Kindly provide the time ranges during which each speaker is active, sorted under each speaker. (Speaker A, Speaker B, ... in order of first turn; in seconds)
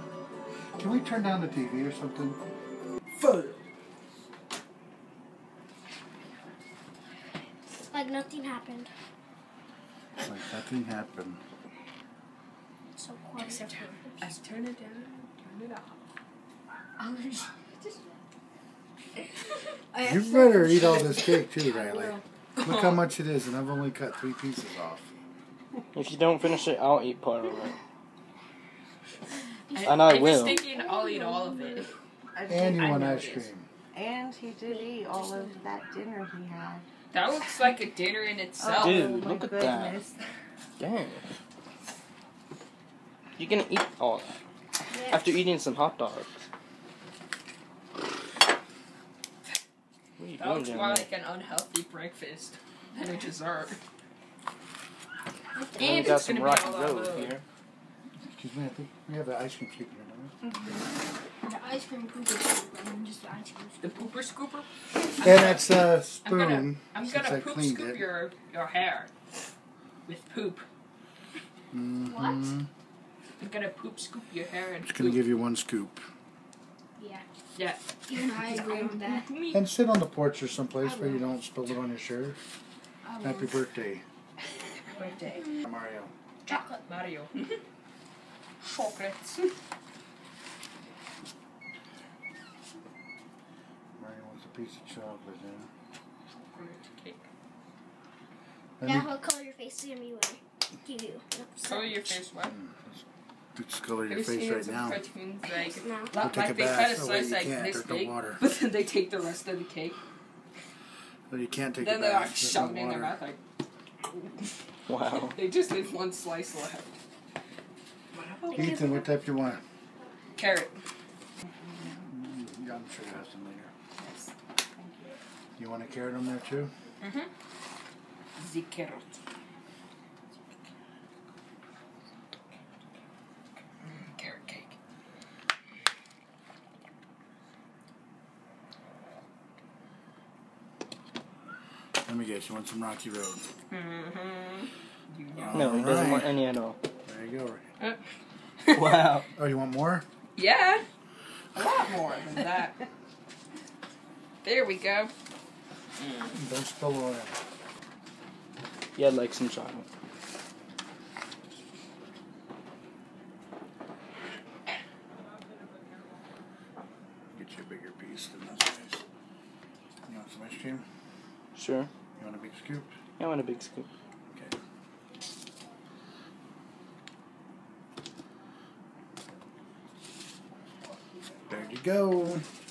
Speaker A: 0.8-2.4, 10.2-11.4, 20.0-25.1, 32.5-33.7, 58.2-60.3, 65.2-68.2, 71.7-72.7, 74.9-76.0, 79.5-82.4, 83.2-84.0, 85.6-86.1, 94.0-95.7, 98.8-99.1, 102.4-103.0, 103.5-105.0, 106.2-108.4, 111.3-113.2, 118.5-119.6, 122.0-123.7, 125.6-126.7, 142.0-143.4, 145.3-146.3, 147.0-147.6, 149.3-150.1, 156.3-157.3, 167.3-169.0, 170.1-170.8, 172.2-172.9, 181.5-182.4
Speaker B: 3.2-3.6, 13.4-16.0, 22.6-23.1, 29.7-31.9, 32.7-33.5, 37.1-39.2, 50.4-53.8, 55.8-57.4, 63.8-69.1, 70.1-70.7, 73.4-75.3, 77.5-79.6, 84.9-85.5, 86.5-87.6, 88.6-89.5, 96.3-97.3, 101.6-102.6, 104.1-110.0, 111.8-113.4, 114.1-114.5, 115.2-116.9, 120.4-120.8, 124.0-124.3, 127.0-127.3, 128.4-129.2, 133.8-134.7, 143.7-145.7, 148.6-149.0, 150.4-150.8, 151.6-152.8, 154.4-155.1, 156.0-156.3
Speaker C: 7.9-8.9, 13.0-14.3, 17.0-17.9, 19.9-20.2, 30.6-31.9, 34.7-35.7, 44.9-45.3, 61.5-63.9, 72.0-72.5, 77.0-77.2, 78.1-79.2, 98.8-102.0, 105.5-106.2, 118.5-119.1
Speaker D: 25.9-27.8, 29.9-30.6, 38.7-40.0, 40.8-41.2, 43.4-44.4, 45.0-46.4, 50.2-51.1, 55.8-57.4, 114.9-115.4, 145.5-146.8, 148.7-149.3, 159.0-159.9, 171.6-171.9, 173.2-173.9
Speaker E: 32.3-33.0, 33.9-36.9, 38.6-40.3